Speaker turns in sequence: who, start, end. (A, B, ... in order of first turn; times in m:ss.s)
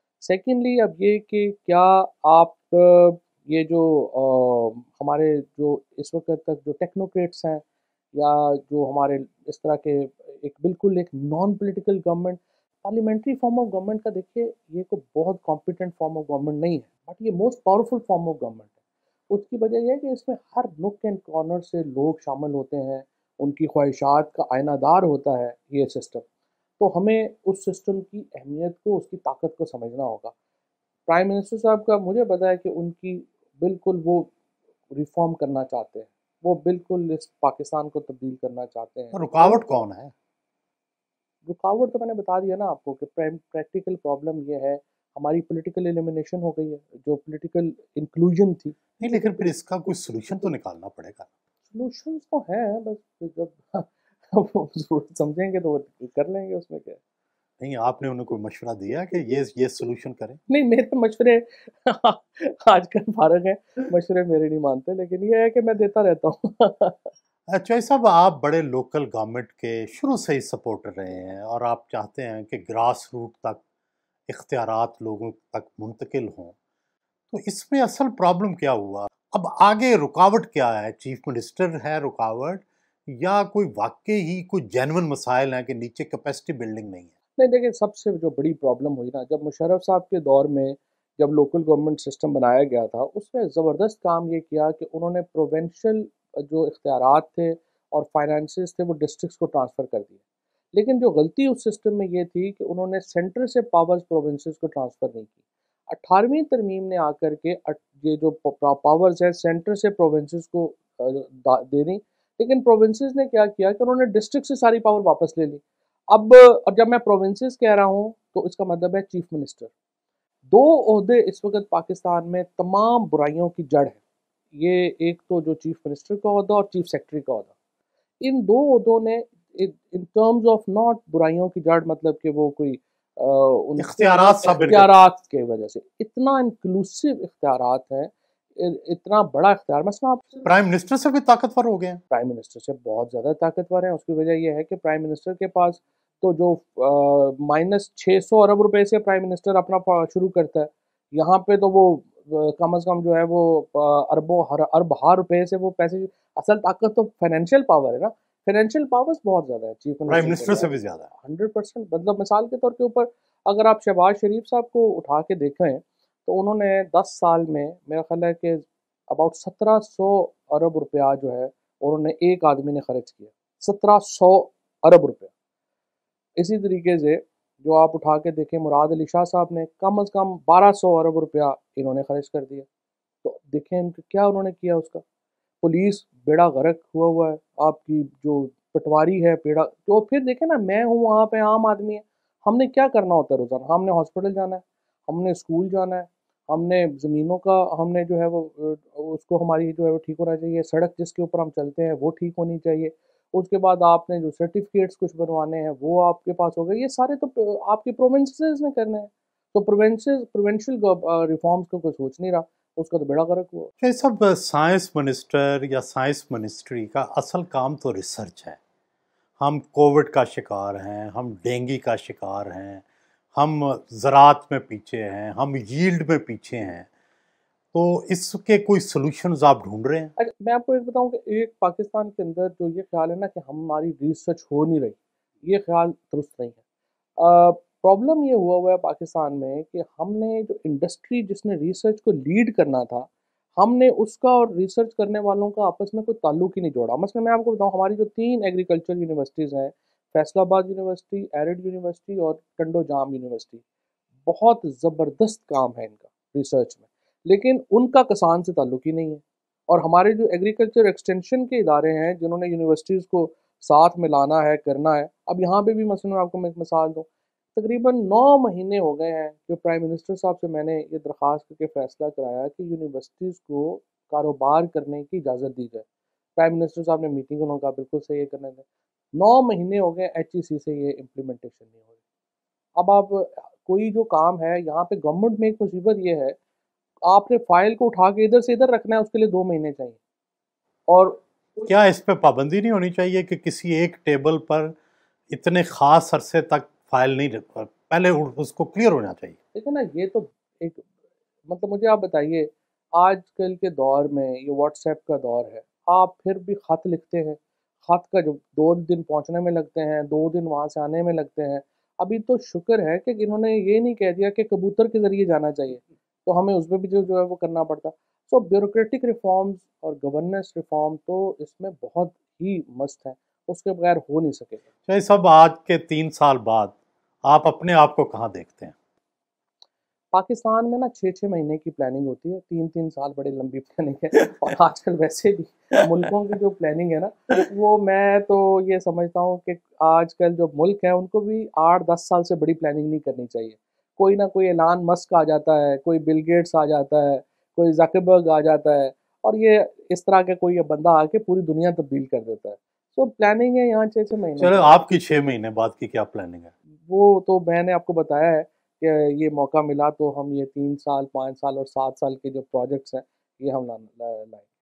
0:00.2-0:18.7 A
0:19.3-0:26.2 A
0:26.8-0:30.3 A
0:31.1-0:34.3 A
0:34.9-0:39.6 A
0:39.1-0:40.1 B
0:41.4-0:49.4 A
0:49.0-0:51.3 B
0:51.7-0:57.0 A
0:57.6-1:00.4 B
1:00.5-1:07.1 A
1:07.5-1:13.6 B
1:14.3-1:16.5 B
1:17.3-1:27.1 B
1:27.4-1:40.2 A
1:40.7-1:45.4 A
1:45.9-1:59.7 A
2:00.4-2:04.0 A
2:04.5-2:07.5 A
2:08.2-2:20.4 A
2:13.8-2:14.9 B
2:20.4-2:22.0 B
2:22.1-2:55.3 A
2:40.1-2:41.1 B
2:56.4-3:02.7 A
3:03.2-3:05.0 A
3:05.6-3:33.7 A
3:33.8-3:38.6 B
3:39.4-3:46.9 B
3:47.7-3:50.1 B
3:50.2-3:56.6 A
3:57.2-4:13.6 A
4:14.2-4:35.8 A
4:36.4-4:41.8 A
4:42.7-4:46.4 A
4:47.0-4:50.0 A
4:50.9-4:51.7 A
4:51.6-4:54.7 B
4:55.3-4:59.4 B
4:59.5-5:00.8 A
5:01.5-5:24.6 A
5:24.9-5:28.7 B
5:30.1-5:54.8 A
5:54.4-5:56.5 B
5:56.8-6:04.4 A